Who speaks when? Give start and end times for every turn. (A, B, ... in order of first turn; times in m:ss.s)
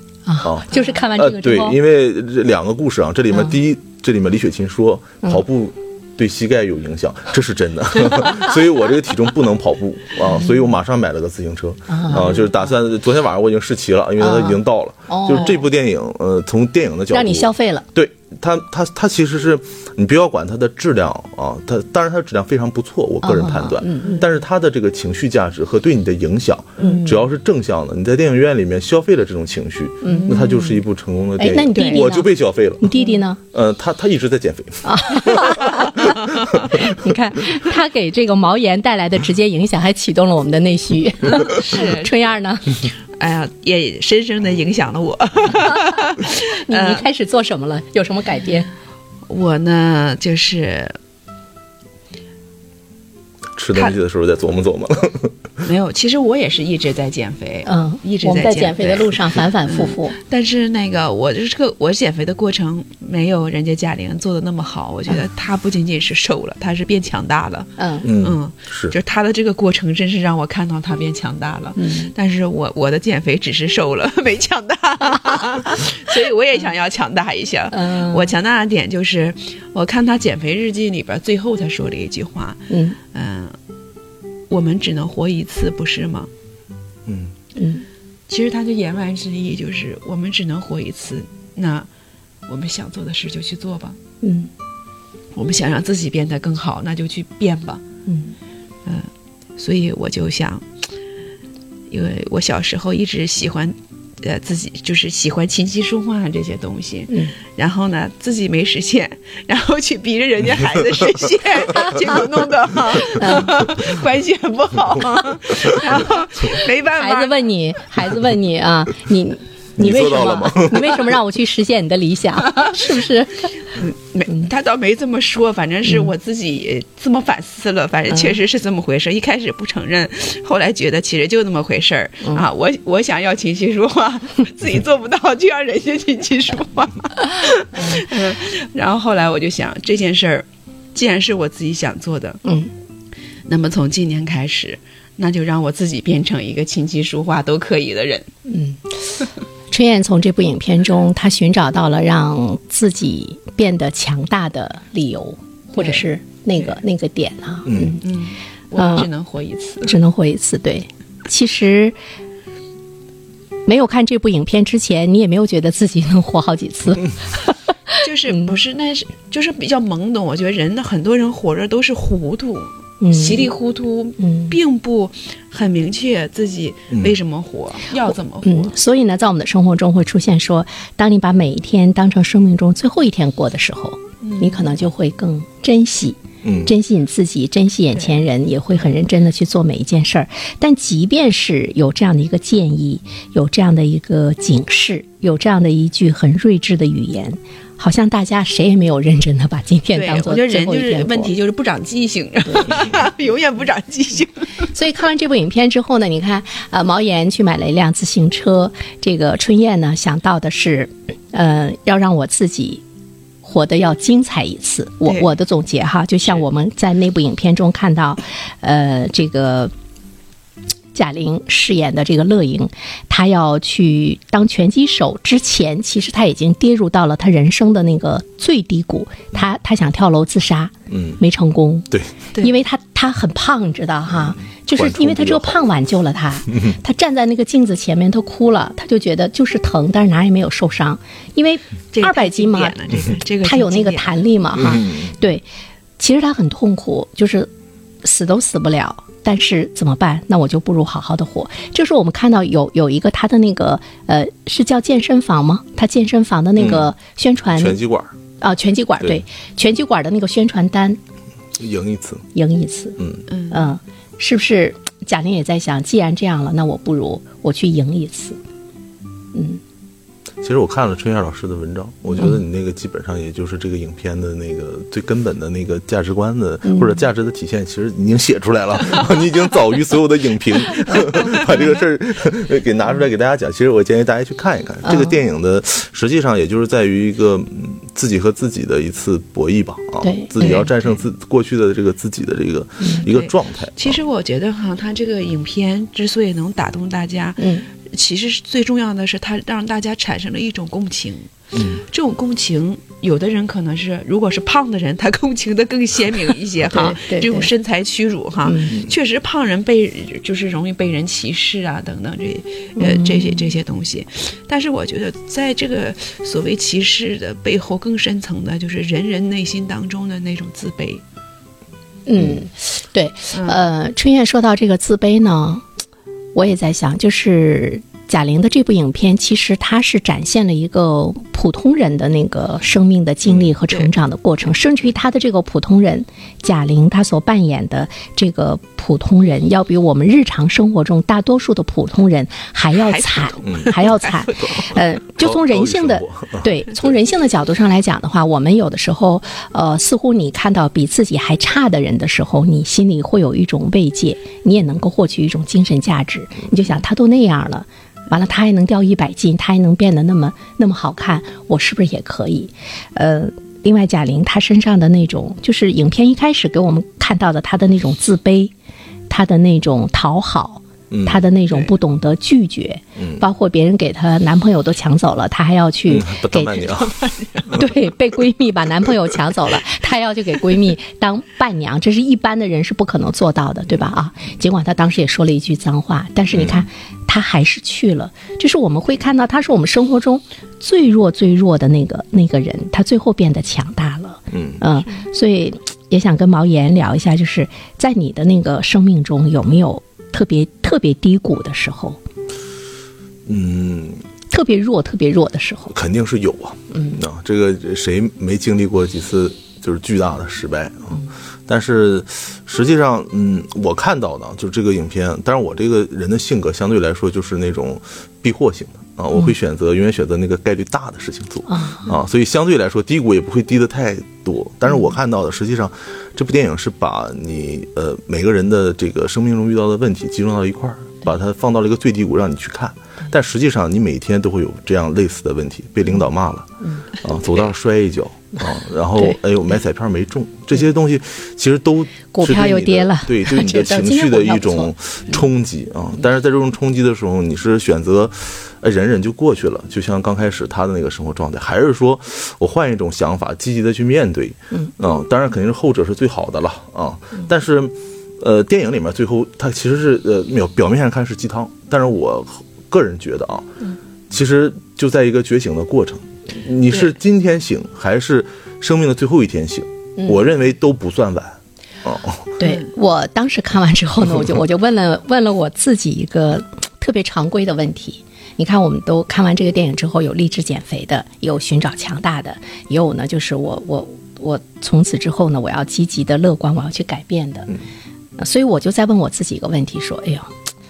0:00.3-0:01.8 A
0:00.4-0:32.9 B
0:03.3-0:03.6 A
0:10.4-0:10.6 A
0:11.9-0:12.5 A
0:14.2-0:15.6 A
0:17.1-0:17.9 A
0:23.2-0:24.3 A
0:26.8-0:27.3 A
0:30.0-0:30.9 A
0:30.1-0:30.6 C
0:31.4-0:33.4 A
0:31.7-0:32.1 C
0:32.9-0:33.2 C
0:33.5-0:36.9 B
0:34.8-0:36.1 A
0:36.9-0:42.8 A
0:41.5-0:47.1 C
0:46.5-0:48.7 A
0:49.3-0:51.0 C
0:53.6-0:55.4 B
0:55.6-1:23.6 C
0:57.7-1:00.2 A
1:07.8-1:08.1 A
1:08.0-1:08.9 B
1:11.8-1:12.1 A
1:17.7-1:18.3 A
1:22.7-1:23.0 A
1:24.5-1:26.3 C
1:27.1-1:27.3 B
1:27.6-1:27.8 A
1:28.3-1:31.9 C
1:32.5-1:34.0 C
1:34.2-1:34.5 A
1:35.3-1:37.8 C
1:38.1-1:38.3 A
1:38.8-1:40.7 C
1:41.9-1:57.4 C
1:47.1-1:47.4 A
1:53.2-1:53.5 A
1:56.9-2:03.6 A
1:59.8-2:00.9 B
2:03.8-2:22.4 C
2:05.9-2:06.1 A
2:08.1-2:08.4 A
2:17.7-2:18.0 A
2:22.4-2:22.7 A
2:23.5-2:28.3 C
2:28.5-2:29.0 A
2:29.7-2:38.0 A
2:35.8-2:36.8 C
2:37.7-2:38.0 B
2:38.0-2:40.0 C
2:38.8-2:39.1 A
2:39.8-2:42.0 A
2:43.7-2:48.5 A
2:48.0-2:58.8 C
2:53.0-2:53.5 A
2:54.2-2:54.6 A
2:58.4-3:21.3 A
3:04.2-3:04.8 C
3:06.4-3:06.7 B
3:07.9-3:08.3 C
3:19.9-3:24.7 C
3:24.7-3:32.8 A
3:33.4-3:39.7 A
3:35.0-3:35.3 C
3:40.9-4:05.5 A
3:50.9-3:51.2 B
3:54.1-3:55.6 B
4:01.9-4:04.3 C
4:04.6-4:05.1 B
4:06.0-4:07.5 A
4:08.0-4:17.9 A
4:16.6-4:16.9 B
4:17.5-4:18.1 B
4:18.4-4:21.0 A
4:21.6-4:22.3 B
4:22.3-4:28.4 A
4:23.0-4:23.2 B
4:23.3-4:23.8 C
4:29.3-4:29.6 A
4:30.4-4:54.0 B
4:36.7-4:37.0 A
4:44.8-4:45.2 A
4:50.0-4:50.6 A
4:50.4-4:51.0 C
4:52.8-4:53.1 A
4:52.9-5:21.0 C
4:57.4-4:57.7 A
5:01.6-5:01.8 B
5:06.7-5:07.5 A
5:08.5-5:08.8 A
5:12.8-5:13.6 A
5:22.1-5:25.7 A
5:23.3-5:23.6 C
5:26.3-6:08.5 A
5:33.3-5:33.5 B
5:42.7-5:44.6 C
5:43.4-5:43.7 B
5:45.2-5:46.8 B
6:09.1-6:16.7 A
6:10.9-6:11.2 B
6:11.5-6:11.7 C
6:13.0-6:13.2 B
6:15.9-6:17.0 B
6:16.6-6:17.8 C
6:17.6-6:42.0 A
6:26.3-6:26.7 B
6:34.3-6:34.6 B
6:43.3-6:44.0 B
6:44.3-6:45.8 A
6:45.7-7:16.5 B
6:46.7-6:47.0 A
7:01.5-7:02.0 A
7:15.9-7:16.9 A
7:17.0-7:43.5 B
7:18.4-7:19.2 A
7:22.0-7:25.2 A
7:44.1-7:52.4 B
7:50.0-7:50.3 A
7:52.4-8:07.6 A
7:52.4-7:52.7 C
8:08.2-8:10.4 A